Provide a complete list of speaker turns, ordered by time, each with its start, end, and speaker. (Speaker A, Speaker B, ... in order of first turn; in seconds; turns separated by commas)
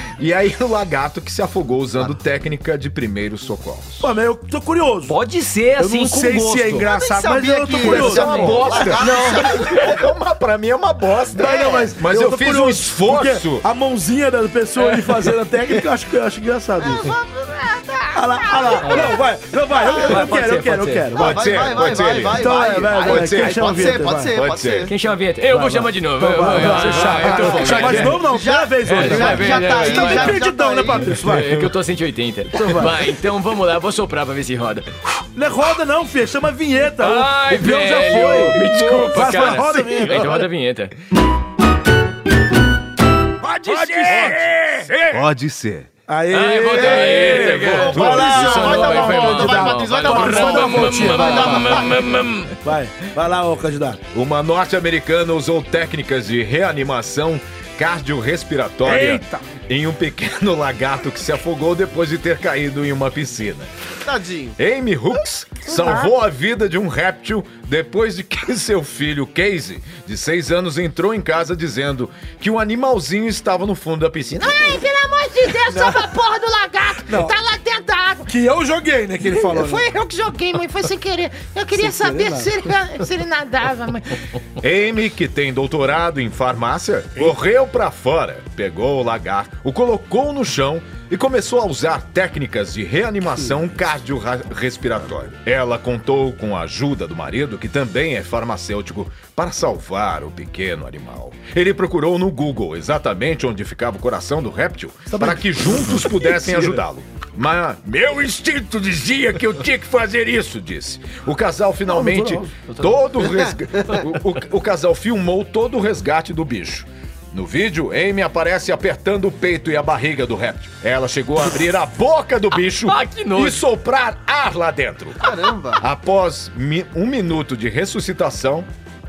Speaker A: 0.2-4.1, Speaker B: 4.0-5.2, Speaker C: 5.1-6.9, Speaker B: 5.8-8.6, Speaker D: 6.9-10.0, Speaker A: 7.8-13.7, Speaker C: 7.9-10.0, Speaker B: 11.3-17.1, Speaker D: 11.4-11.9, Speaker C: 14.8-15.3, Speaker D: 17.1-18.1, Speaker B: 18.1-21.6, Speaker C: 18.8-19.2, Speaker C: 19.7-21.1, Speaker D: 19.8-20.2, Speaker D: 21.1-24.9, Speaker A: 21.1-24.9, Speaker B: 22.3-24.4, Speaker C: 24.9-28.2, Speaker B: 25.5-31.6, Speaker D: 27.2-31.1, Speaker C: 28.9-30.4, Speaker C: 31.2-34.9, Speaker B: 32.5-33.1, Speaker B: 35.4-40.4, Speaker C: 37.0-40.9, Speaker A: 38.5-40.4, Speaker A: 43.4-45.9, Speaker B: 43.7-45.2, Speaker C: 43.7-44.3, Speaker B: 46.1-52.0, Speaker C: 46.3-52.5, Speaker A: 46.8-48.7, Speaker D: 47.7-52.1, Speaker B: 52.6-54.0, Speaker A: 54.1-63.7, Speaker B: 58.8-59.5, Speaker D: 64.0-64.6, Speaker A: 64.6-74.9, Speaker B: 65.7-66.1, Speaker E: 74.3-78.3, Speaker B: 75.7-76.1, Speaker B: 77.1-77.4, Speaker B: 78.3-79.9, Speaker E: 79.3-84.2, Speaker B: 81.8-82.6, Speaker A: 84.6-128.7, Speaker B: 105.1-106.8, Speaker B: 111.9-112.5, Speaker C: 112.7-113.0, Speaker D: 113.2-114.0, Speaker C: 122.8-123.6, Speaker D: 125.2-125.8